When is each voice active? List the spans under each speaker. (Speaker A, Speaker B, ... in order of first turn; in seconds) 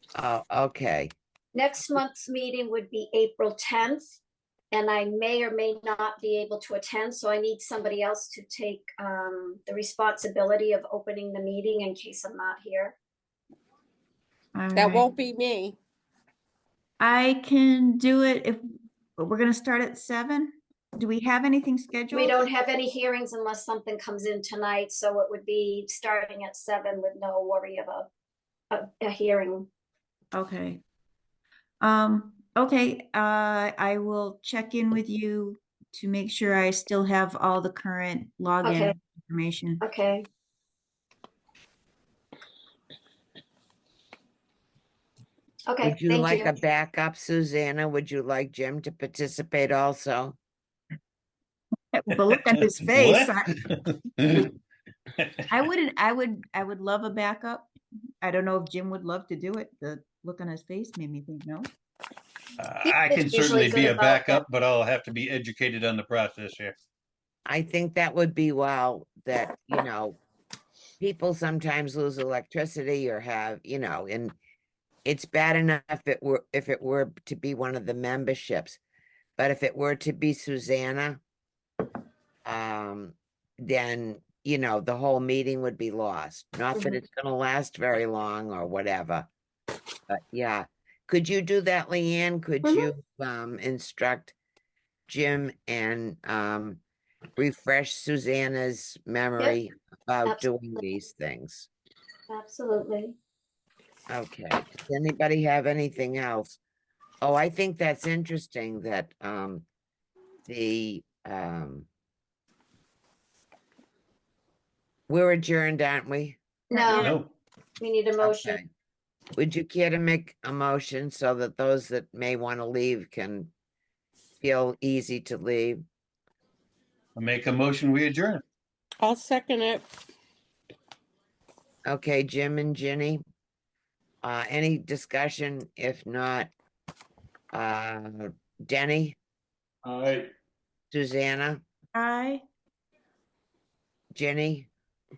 Speaker A: 0.2-1.1, 45.8-50.4, 67.5-70.2, 71.0-74.4, 75.0-78.8, 79.4-81.2, 82.5-89.3, 90.1-94.3, 95.1-96.8, 97.4-101.7, 104.1-106.6, 107.2-109.7, 110.5-111.9, 115.1-116.4, 118.2-118.7, 119.4-123.5, 124.4-125.8, 131.9-133.2, 134.2-136.5, 137.5-139.2, 140.9-141.6, 144.1-144.7
Speaker B: 1.5-4.2, 4.7-13.0, 22.1-28.1, 28.7-29.7, 38.6-39.0, 39.8-40.3, 45.7-46.5, 62.9-64.4, 86.8-87.0, 102.3-103.2, 116.7-117.2, 117.8-118.6
Speaker C: 14.6-15.1, 17.0-18.6, 19.2-22.5, 30.3-30.8, 31.8-39.8, 51.9-53.5, 55.5-61.7, 116.7-117.2, 141.9-142.4
Speaker D: 14.7-15.8, 129.0-129.9
Speaker E: 52.3-54.5, 55.2-55.4, 62.6-66.8, 116.9-117.3, 127.2-128.4, 139.8-140.3